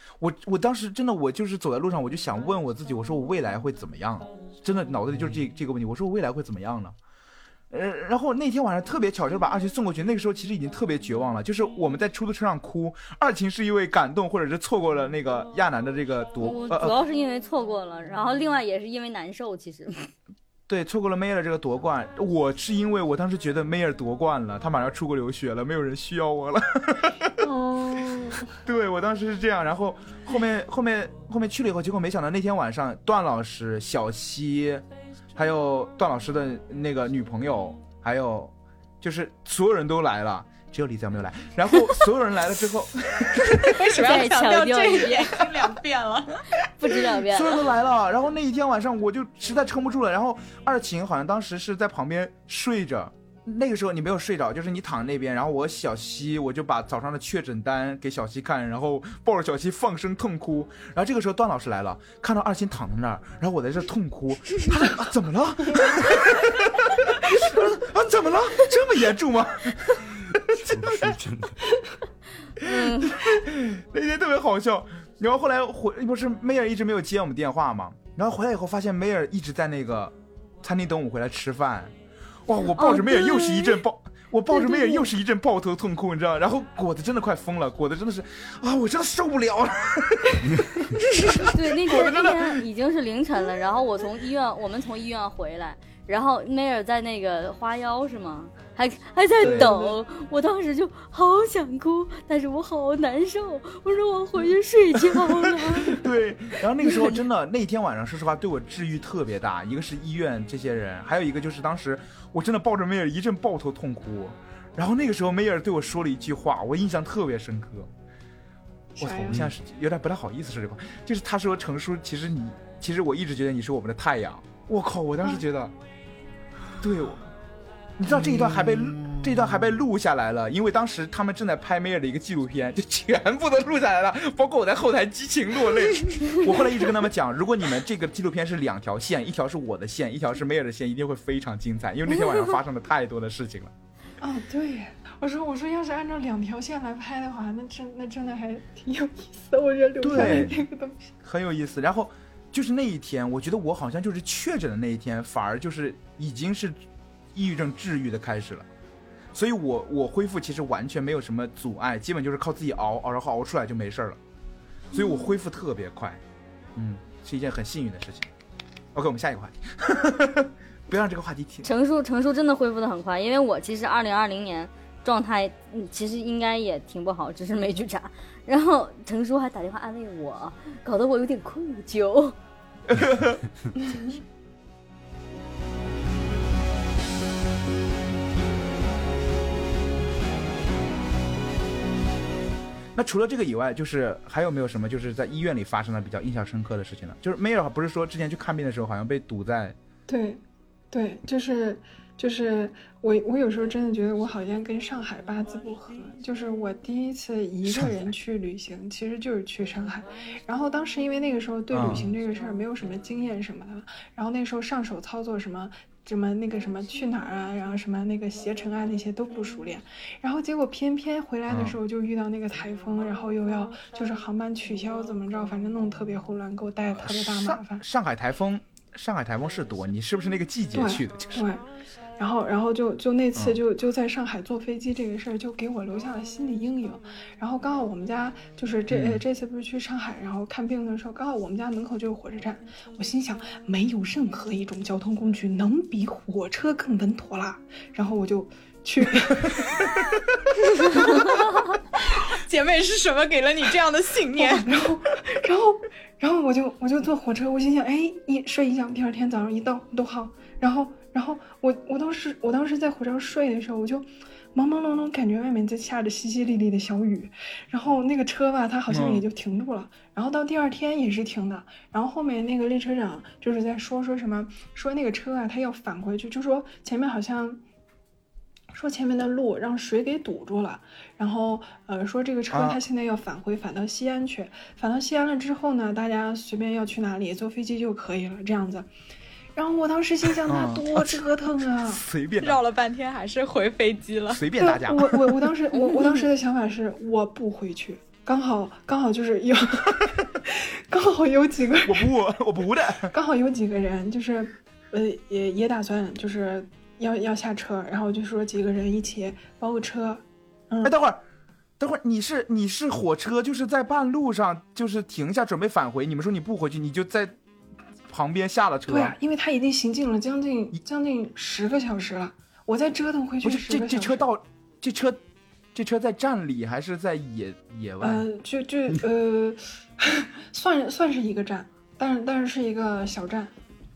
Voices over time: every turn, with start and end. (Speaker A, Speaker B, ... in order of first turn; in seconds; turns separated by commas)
Speaker A: 0.2-7.0, Speaker A: 7.7-16.9, Speaker B: 16.4-20.1, Speaker A: 20.7-27.3, Speaker C: 27.4-28.5, Speaker A: 28.6-43.8, Speaker D: 43.5-46.4, Speaker B: 43.8-45.4, Speaker B: 46.8-47.7, Speaker A: 47.2-71.2, Speaker E: 70.7-71.6, Speaker B: 72.6-73.2, Speaker A: 72.6-81.9, Speaker A: 82.5-92.6, Speaker B: 82.8-83.8, Speaker B: 84.5-85.1, Speaker B: 91.1-106.1, Speaker A: 99.4-99.9, Speaker A: 105.1-117.9, Speaker C: 119.0-119.5, Speaker A: 119.0-125.7, Speaker A: 126.8-127.3, Speaker A: 128.0-143.7, Speaker E: 128.1-129.8, Speaker C: 144.2-151.1, Speaker A: 150.0-150.6, Speaker A: 151.2-156.8, Speaker A: 157.3-158.7, Speaker A: 159.3-164.2, Speaker A: 164.9-166.2, Speaker A: 166.8-168.3, Speaker A: 168.9-171.7, Speaker B: 171.6-182.4, Speaker A: 182.9-183.4, Speaker A: 193.0-199.8, Speaker C: 200.1-227.8, Speaker A: 207.7-208.0, Speaker A: 211.7-212.1, Speaker A: 221.5-221.8, Speaker A: 227.0-231.4, Speaker C: 230.7-231.7, Speaker C: 232.2-249.6, Speaker A: 238.9-239.2, Speaker D: 252.3-254.7, Speaker C: 254.4-277.6, Speaker A: 268.9-269.2, Speaker C: 278.7-288.9, Speaker A: 282.5-282.8, Speaker C: 289.6-292.0, Speaker A: 290.4-292.6, Speaker D: 292.4-294.4, Speaker A: 294.3-295.5, Speaker C: 294.6-302.1, Speaker B: 295.8-296.1, Speaker A: 301.8-303.1, Speaker C: 303.1-310.9, Speaker A: 310.8-311.2, Speaker A: 311.8-317.4, Speaker A: 318.1-319.2, Speaker C: 318.9-324.3, Speaker A: 323.4-325.2, Speaker A: 325.8-328.2, Speaker C: 328.0-333.5